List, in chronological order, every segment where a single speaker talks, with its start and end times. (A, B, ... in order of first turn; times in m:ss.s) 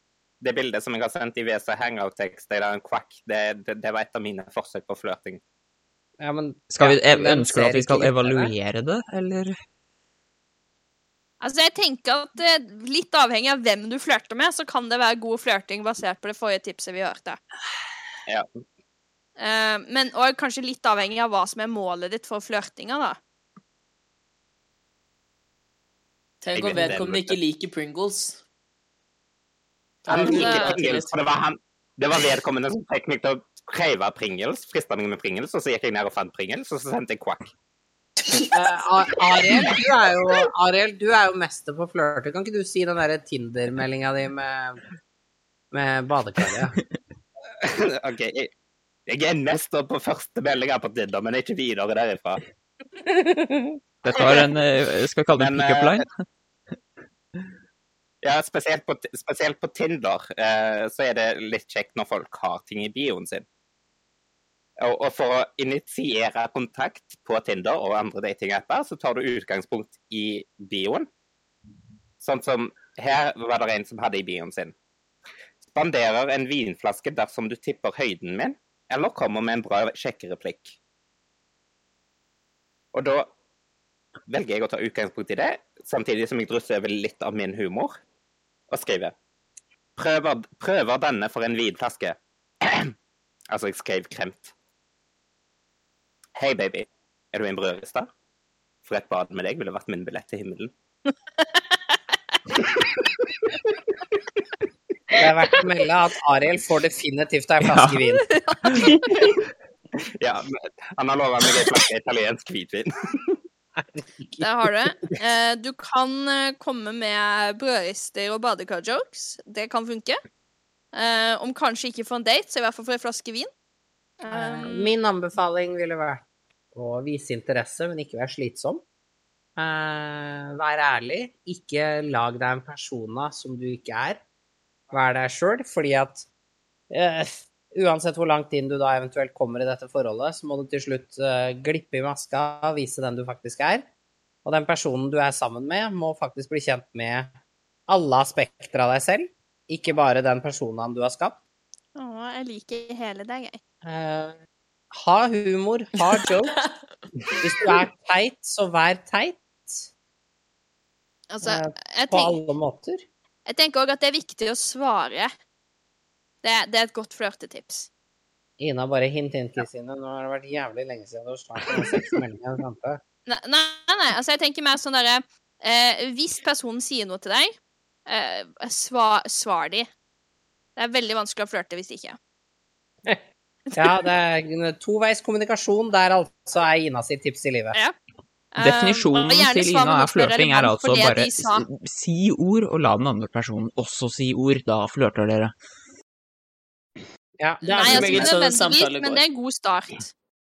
0:00.4-0:05.4 A
0:06.2-0:08.5 B
0:06.7-0:09.6 C
0:11.4-0:17.4 D
0:19.4-0:23.2 D
0:26.4-0:28.4 E
0:26.6-0:27.4 A
0:30.0-0:31.1 E
0:30.1-0:37.5 A
0:30.1-0:30.8 D
0:38.5-0:44.8 B
0:45.7-0:46.8 B
0:47.6-0:48.5 A
0:49.1-0:52.4 A
0:54.0-0:56.1 C
0:55.4-0:56.0 A
0:58.2-1:03.5 A
1:04.8-1:11.1 A
1:12.2-1:14.7 A
1:15.7-1:20.8 A
1:22.9-1:23.3 A
1:24.3-1:28.0 A
1:28.7-1:29.2 A
1:30.0-1:32.9 A
1:33.5-1:34.5 A
1:36.4-1:38.1 A
1:38.9-1:40.7 A
1:45.2-1:48.3 B
1:47.6-1:48.0 C
1:48.4-1:49.1 D
1:48.7-1:48.9 C
1:50.2-1:53.3 A
1:54.0-1:54.4 B
1:54.4-2:00.2 D
2:00.9-2:03.5 D
2:04.2-2:04.9 D
2:04.3-2:06.2 B
2:06.7-2:08.8 B
2:09.6-2:14.2 B
2:14.9-2:16.3 B
2:16.9-2:23.9 B
2:24.4-2:27.4 B
2:27.9-2:31.4 B
2:32.0-2:33.6 D
2:33.8-2:34.4 B
2:34.9-2:36.6 B
2:37.4-2:39.9 B
2:41.3-2:42.4 D
2:41.4-2:43.0 B
2:43.5-2:45.3 D
2:46.4-2:47.9 D
2:48.6-2:53.0 B
2:53.3-2:57.6 D
2:58.1-2:59.9 D
3:00.8-3:02.2 D
3:03.8-3:07.8 B
3:08.5-3:11.7 D
3:08.6-3:15.5 C
3:17.4-3:18.3 B
3:17.6-3:20.1 D
3:17.8-3:19.2 E